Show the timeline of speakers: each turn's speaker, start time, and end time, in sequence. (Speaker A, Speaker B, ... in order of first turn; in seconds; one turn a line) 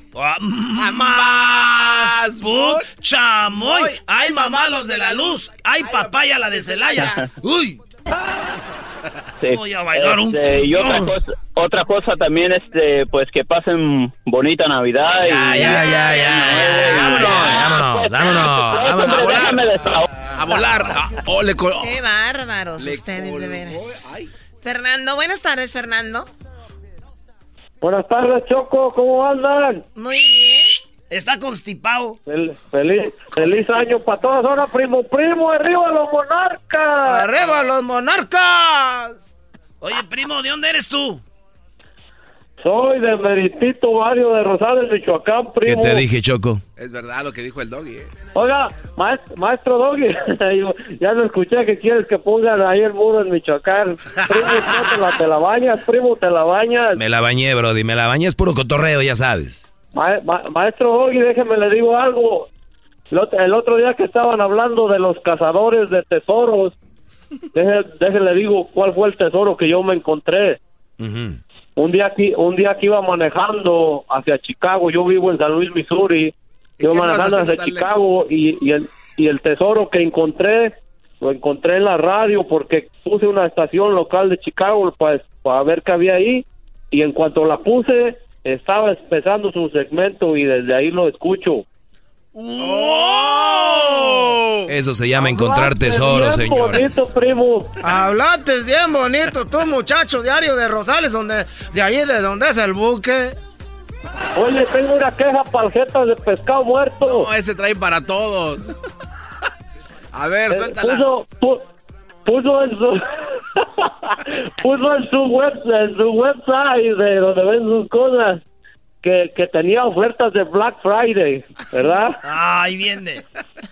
Speaker A: 0.1-7.3
Speaker B: 0.8-2.9
Speaker B: 3.5-6.1
Speaker B: 6.7-7.1
Speaker C: 9.4-20.7
Speaker A: 9.4-11.1
Speaker B: 15.2-17.6
Speaker D: 15.5-19.3
Speaker B: 19.0-19.7
Speaker B: 20.2-22.0
Speaker E: 21.8-26.3
Speaker B: 22.8-24.3
Speaker F: 27.8-29.9
Speaker E: 29.9-30.8
Speaker A: 31.1-32.2
Speaker F: 32.3-37.3
Speaker A: 37.1-39.0
Speaker A: 39.8-41.2
Speaker F: 42.6-46.0
Speaker D: 45.6-46.6
Speaker B: 46.8-48.1
Speaker F: 48.4-57.0
Speaker D: 57.0-59.7
Speaker F: 59.9-62.5
Speaker F: 63.1-66.7
Speaker F: 67.5-70.6
Speaker D: 71.0-71.4
Speaker F: 71.8-91.6
Speaker B: 76.8-77.9
Speaker A: 92.4-93.9
Speaker B: 92.6-94.7
Speaker D: 94.7-97.1
Speaker F: 95.2-97.8
Speaker G: 98.5-100.7
Speaker G: 102.3-103.0
Speaker F: 104.4-107.3
Speaker B: 107.0-108.7
Speaker B: 110.1-111.0
Speaker F: 110.5-111.6
Speaker F: 112.3-113.0
Speaker F: 113.6-118.4
Speaker F: 119.0-122.2
Speaker A: 122.2-123.2